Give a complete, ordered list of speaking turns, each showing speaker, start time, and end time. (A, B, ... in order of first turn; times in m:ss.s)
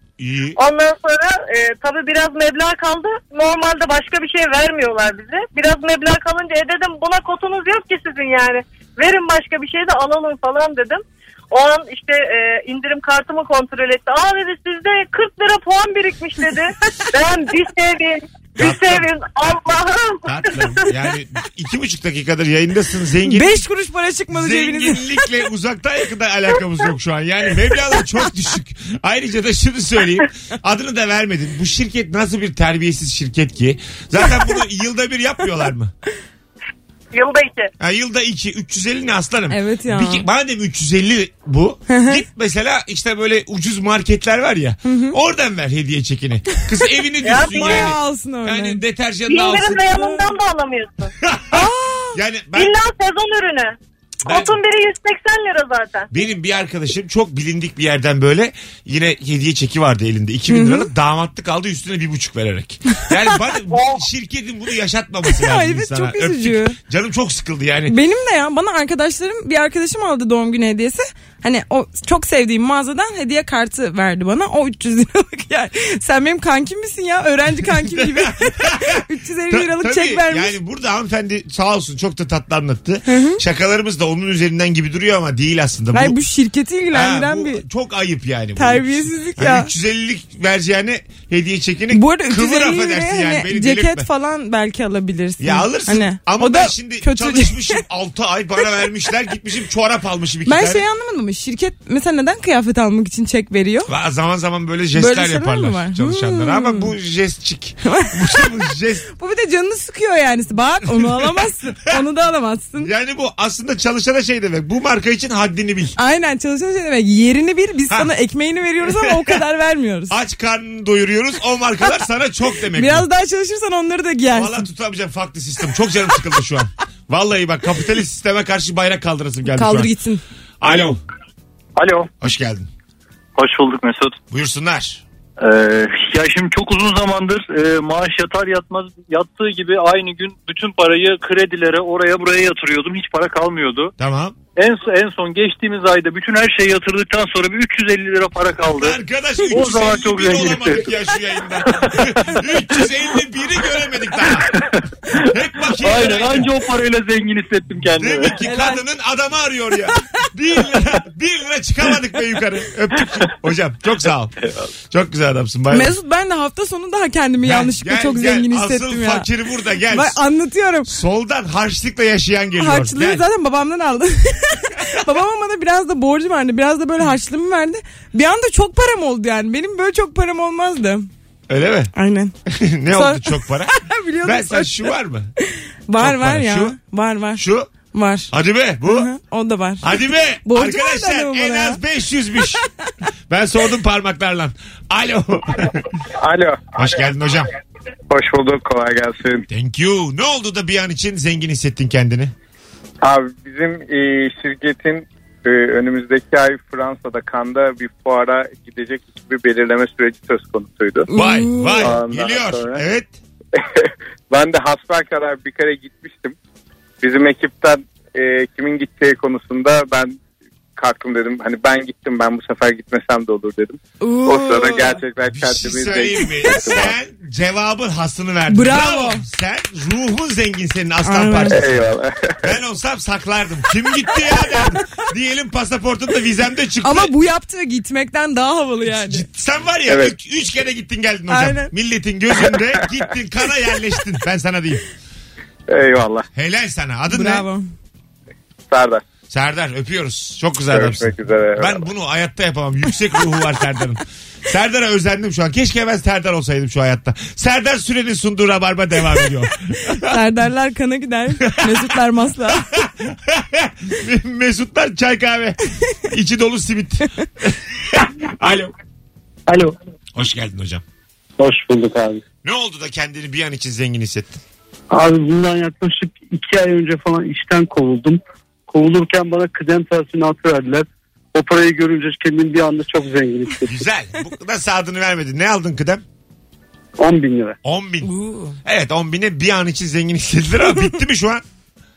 0:00.2-0:00.6 A
0:00.6-0:20.9 B
0:18.6-0:19.1 A
0:20.2-0:23.6 A
0:23.2-0:25.0 C
0:24.3-0:35.9 A
0:37.1-0:37.7 B
0:37.8-0:50.0 A
0:39.5-0:40.2 C
0:41.9-0:42.2 C
0:44.8-0:45.2 C
0:47.2-0:47.9 B
0:47.3-0:48.8 C
0:49.3-0:51.1 B
0:51.2-0:51.6 A
0:51.5-0:52.2 C
0:52.1-0:52.7 A
0:52.5-0:56.1 B
0:54.2-0:54.6 A
0:56.1-1:08.0 A
1:00.5-1:00.9 C
1:05.3-1:06.8 C
1:07.9-1:20.5 C
1:17.7-1:26.2 A
1:23.1-1:23.4 C
1:25.9-1:27.6 C
1:26.9-1:34.1 A
1:28.6-1:29.7 C
1:31.9-1:37.8 C
1:35.4-1:40.8 A
1:40.4-1:43.9 C
1:43.9-1:49.1 A
1:44.9-1:46.9 C
1:47.8-1:48.4 C
1:49.1-1:52.9 C
1:50.9-1:51.4 A
1:52.8-1:56.0 A
1:56.0-2:00.2 C
1:58.9-1:59.4 A
2:00.1-2:03.1 A
2:02.7-2:04.6 C
2:04.3-2:09.9 A
2:09.5-2:10.2 C
2:10.6-2:11.0 A
2:11.8-2:12.1 D
2:12.2-2:12.7 A
2:13.4-2:14.2 D
2:14.3-2:15.0 A
2:15.4-2:23.9 D
2:24.0-2:24.4 A
2:24.6-2:30.9 D
2:28.7-2:34.5 A
2:31.8-2:32.4 D
2:35.3-2:36.5 A
2:35.8-2:38.6 D
2:38.0-2:44.4 A
2:44.9-2:45.9 A
2:45.7-2:49.2 C
2:47.4-2:50.2 A
2:49.9-2:50.9 C
2:50.9-2:53.2 A
2:52.6-3:01.1 C
3:01.5-3:01.9 A
3:01.9-3:02.3 C
3:02.5-3:05.3 A
3:02.9-3:04.9 C
3:05.9-3:08.3 C
3:06.0-3:06.8 A
3:07.4-3:07.7 A
3:08.3-3:09.1 A
3:08.8-3:11.8 C
3:09.8-3:12.6 A
3:13.3-3:15.8 A
3:16.2-3:16.7 E
3:16.7-3:17.5 A
3:18.1-3:19.4 E
3:19.5-3:22.3 A
3:23.0-3:31.1 E
3:31.1-3:31.9 C
3:31.1-3:33.1 A
3:31.8-3:32.8 E
3:33.6-3:36.3 E
3:37.0-3:40.1 E
3:40.8-3:46.9 E
3:44.0-3:45.0 C
3:45.3-3:57.1 A
3:48.5-3:49.2 C
3:51.0-3:51.6 C
3:51.5-3:52.4 E
3:56.8-3:59.2 C
3:59.0-4:04.8 A
3:59.9-4:00.1 E
4:01.3-4:01.7 C
4:05.7-4:06.2 E
4:06.3-4:07.5 A
4:07.1-4:07.7 C
4:08.7-4:09.0 E
4:09.3-4:20.2 A
4:10.7-4:11.8 E
4:20.0-4:22.7 C
4:21.4-4:21.9 A
4:22.5-4:28.7 A
4:29.5-4:29.7 F
4:30.1-4:30.8 A
4:31.4-4:32.2 F
4:32.4-4:34.4 A
4:34.9-4:43.8 F
4:43.6-4:46.0 A
4:47.0-4:47.6 F
4:47.6-4:48.1 A
4:48.0-4:48.6 C
4:48.6-4:51.4 A